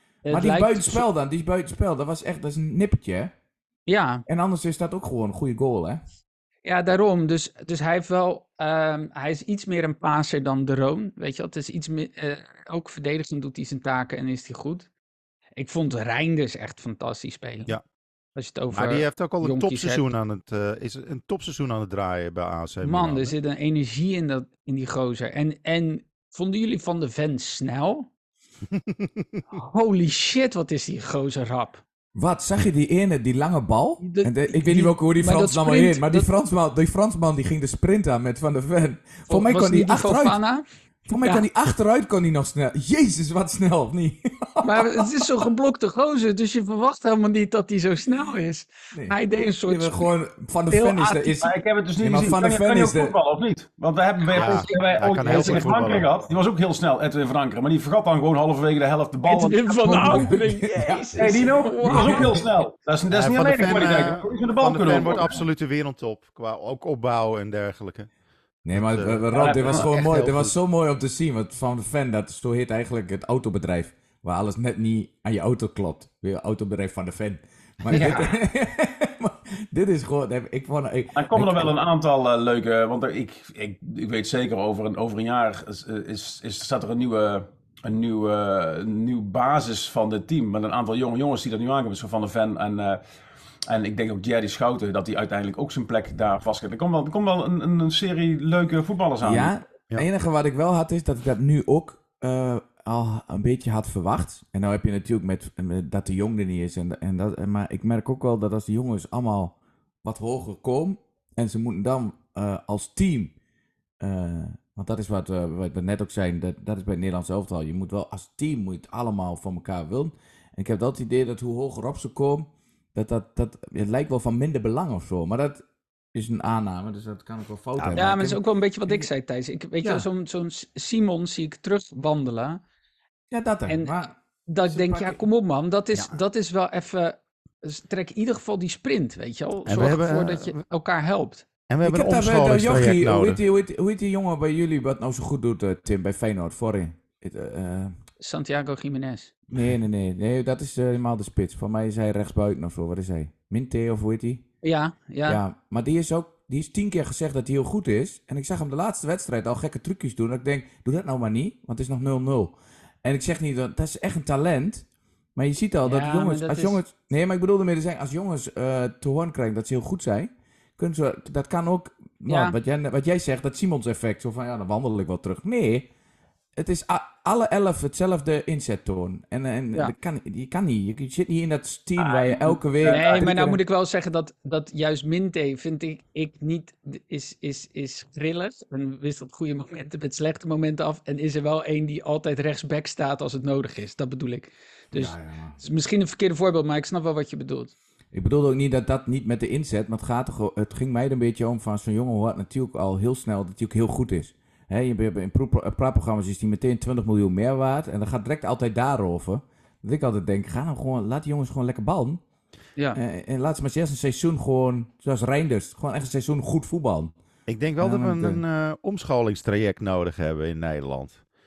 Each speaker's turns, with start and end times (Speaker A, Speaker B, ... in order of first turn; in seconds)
Speaker A: 0.2-1.0, 3.9-4.2, 6.6-14.9, 15.6-17.7, 18.3-20.1, 22.8-28.1, 29.5-31.8, 34.0-36.3, 39.3-40.6, 41.2-41.5, 44.6-50.1, 50.7-51.4, 54.2-56.0, 59.2-62.4, 128.0-132.6, 133.7-133.9, 134.4-141.4, 148.2-149.3, 154.6-155.4, 165.8-166.8, 172.2-172.6, 182.9-197.7
Speaker B: 0.3-3.3, 4.3-6.0, 32.1-40.4, 41.0-45.2, 48.9-53.1, 59.8-61.1, 61.9-62.4, 68.6-81.7, 99.2-113.3, 114.0-125.6, 126.1-129.1, 129.8-130.1, 133.3-134.1, 134.7-135.2, 141.8-147.9, 149.5-154.4, 155.2-175.9, 176.6-183.6, 194.9-195.6, 198.1-212.2, 212.9-217.1, 217.8-218.4
Speaker C: 18.7-23.3, 28.7-29.4, 54.3-56.1, 63.1-68.1, 68.7-70.5, 127.8-128.1, 139.7-140.5, 141.7-143.4, 217.5-221.2
Speaker D: 51.4-60.3, 61.1-65.4, 69.3-69.9, 77.9-78.3, 81.1-93.0, 93.7-99.5, 182.0-183.3